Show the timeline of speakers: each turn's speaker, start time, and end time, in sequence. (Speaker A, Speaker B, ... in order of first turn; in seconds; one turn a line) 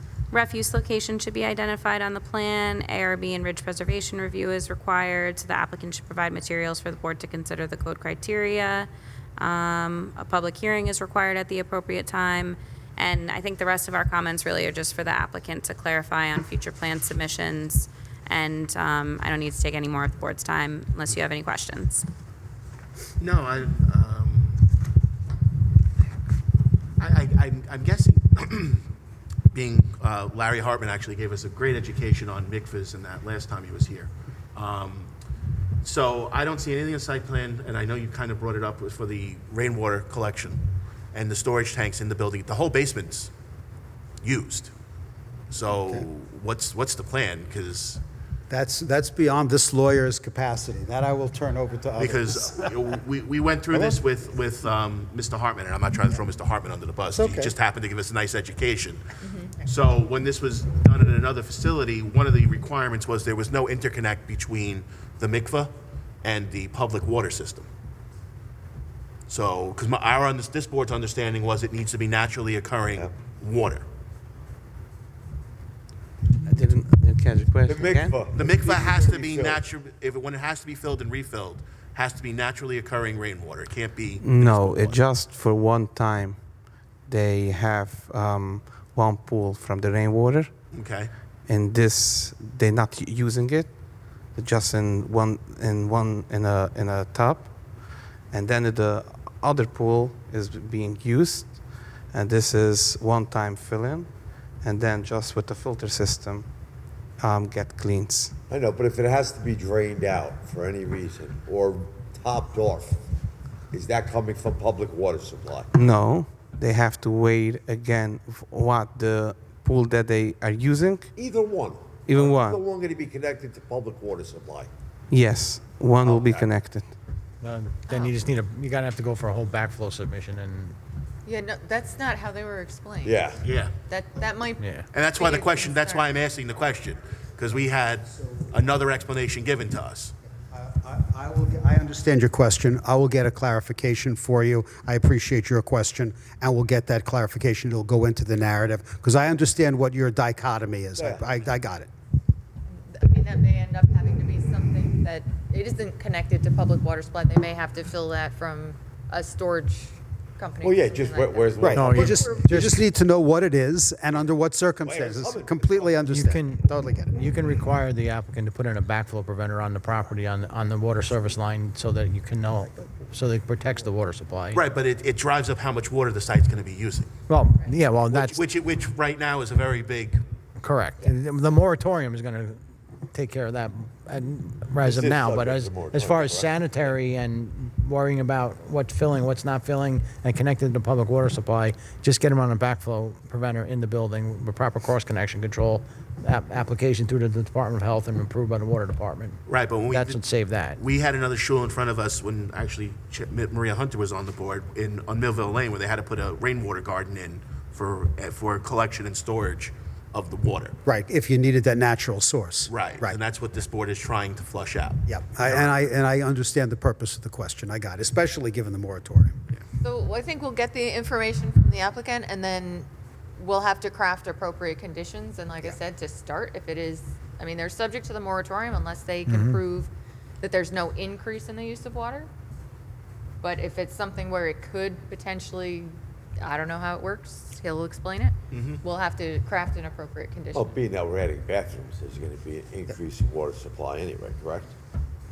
Speaker A: 0.3-22.1
Speaker B: 23.2-24.6
Speaker B: 27.0-28.9
Speaker B: 29.5-35.1
Speaker B: 35.8-40.6
Speaker B: 41.1-43.3
Speaker B: 44.2-44.7
Speaker B: 45.5-48.0
Speaker C: 45.7-46.0
Speaker C: 48.5-52.9
Speaker B: 52.0-59.0
Speaker C: 53.7-54.0
Speaker C: 57.1-57.5
Speaker D: 59.2-59.6
Speaker B: 59.6-67.7
Speaker B: 69.3-73.8
Speaker E: 76.4-78.2
Speaker F: 77.7-79.6
Speaker B: 78.3-85.0
Speaker E: 84.2-86.4
Speaker E: 87.1-90.5
Speaker B: 90.7-91.1
Speaker E: 91.5-93.7
Speaker E: 94.3-104.1
Speaker E: 104.6-106.5
Speaker E: 107.2-108.4
Speaker F: 108.5-113.0
Speaker F: 113.7-115.7
Speaker E: 115.7-121.1
Speaker F: 121.2-124.7
Speaker E: 122.1-122.6
Speaker E: 125.1-127.0
Speaker F: 126.0-126.5
Speaker G: 127.4-130.8
Speaker D: 127.9-128.1
Speaker D: 131.2-136.1
Speaker F: 133.0-133.4
Speaker B: 133.4-133.7
Speaker G: 134.6-134.9
Speaker B: 134.9-140.2
Speaker C: 138.2-138.5
Speaker C: 140.5-151.9
Speaker F: 151.0-151.3
Speaker D: 152.9-162.6
Speaker F: 160.6-162.1
Speaker C: 161.6-167.2
Speaker G: 161.7-162.8
Speaker F: 164.8-166.1
Speaker G: 166.1-174.6
Speaker B: 174.5-177.1
Speaker G: 177.3-178.4
Speaker B: 178.1-180.2
Speaker G: 180.6-200.8
Speaker F: 184.8-186.6
Speaker B: 199.5-200.2
Speaker B: 200.8-210.8
Speaker C: 210.8-213.2
Speaker B: 212.7-215.8
Speaker C: 215.1-219.4
Speaker D: 219.8-229.9
Speaker G: 229.3-229.6
Speaker D: 230.4-232.3
Speaker D: 233.4-240.8
Speaker B: 238.5-238.8
Speaker F: 240.5-244.8